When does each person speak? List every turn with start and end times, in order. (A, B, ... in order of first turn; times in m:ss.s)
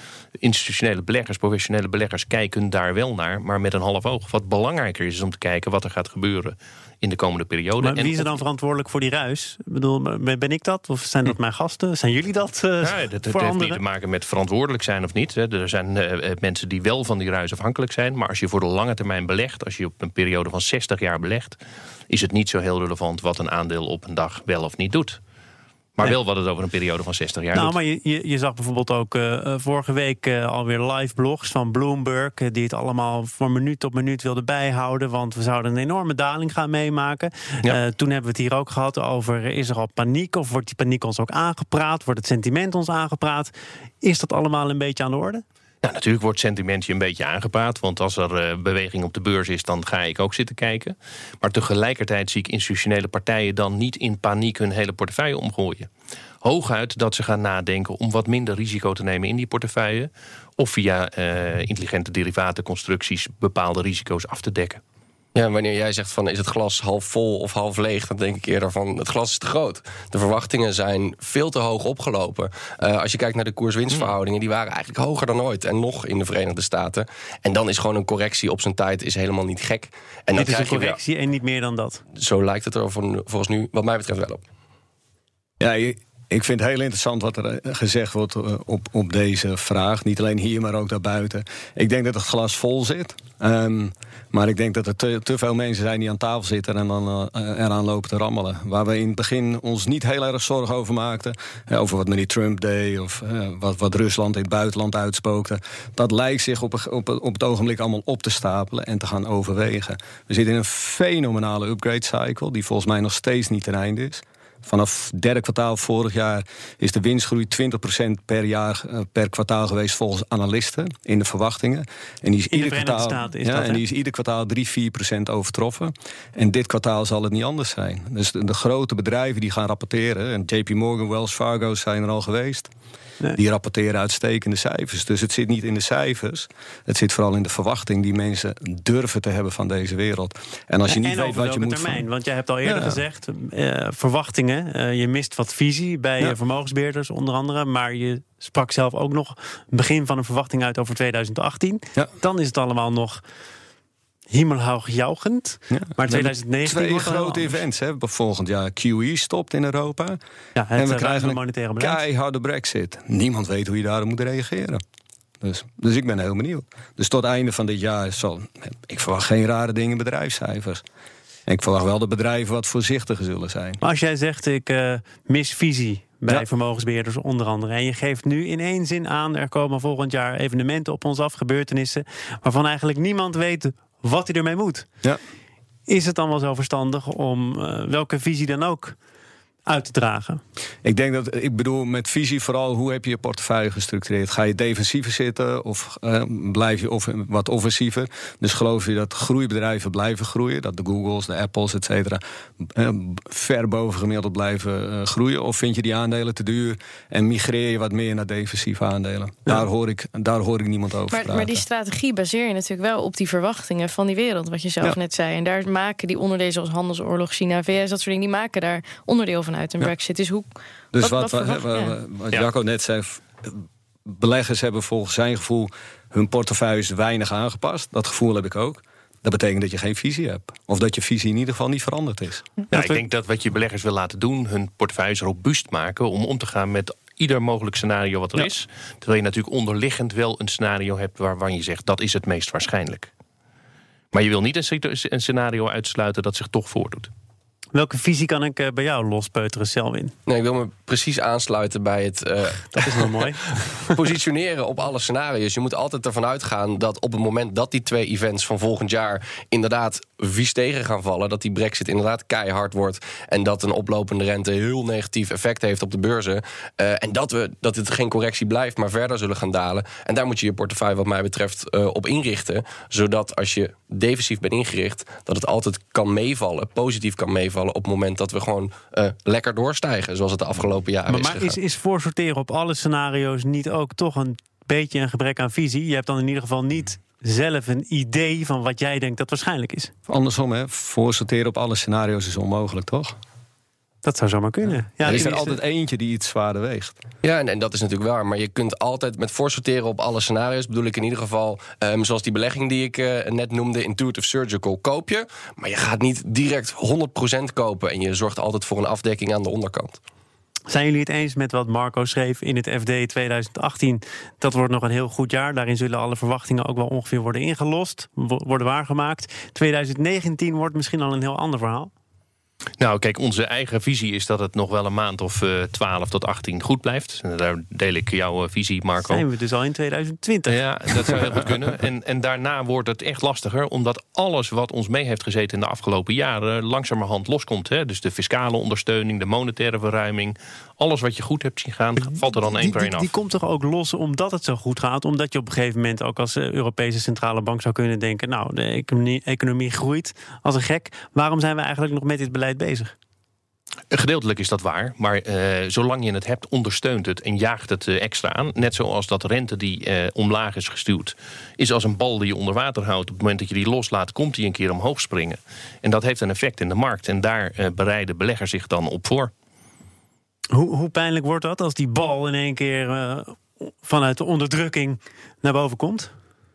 0:00.4-0:08.3 A
0:07.8-0:13.8 B
0:12.8-0:21.6 A
0:22.1-0:25.2 A
0:26.0-0:27.8 A
0:27.5-0:45.4 B
0:45.8-0:55.9 A
0:56.4-1:04.8 A
1:05.3-1:21.0 C
1:20.4-1:22.0 B
1:22.2-1:24.4 C
1:25.6-2:12.7 D
2:02.5-2:03.8 B
2:13.3-2:22.0 D
2:20.9-2:33.2 B
2:22.6-2:23.0 D
2:34.3-2:37.6 B
2:35.7-2:40.2 D
2:40.6-2:42.0 B
2:40.8-2:44.8 D
2:45.4-2:50.8 D
2:51.5-2:53.8 D
2:53.8-3:04.9 B
3:05.9-3:09.0 B
3:09.6-3:10.4 B
3:10.8-3:31.6 D
3:31.1-3:41.9 E
3:40.9-3:52.5 D
3:52.7-3:53.0 B
3:52.7-4:03.1 A
4:04.1-4:07.1 A
4:07.7-4:10.1 B
4:10.3-4:41.6 C
4:12.7-4:14.0 B
4:41.1-4:49.9 B
4:50.1-4:53.2 D
4:54.0-4:55.5 B
4:55.0-4:57.0 D
4:55.1-4:55.4 C
4:57.2-5:10.0 C
5:10.7-5:21.9 B
5:22.8-5:29.2 A
5:29.0-5:31.2 B
5:30.5-5:43.1 A
5:42.0-5:52.9 B
5:53.9-6:09.3 A
6:10.5-6:16.1 B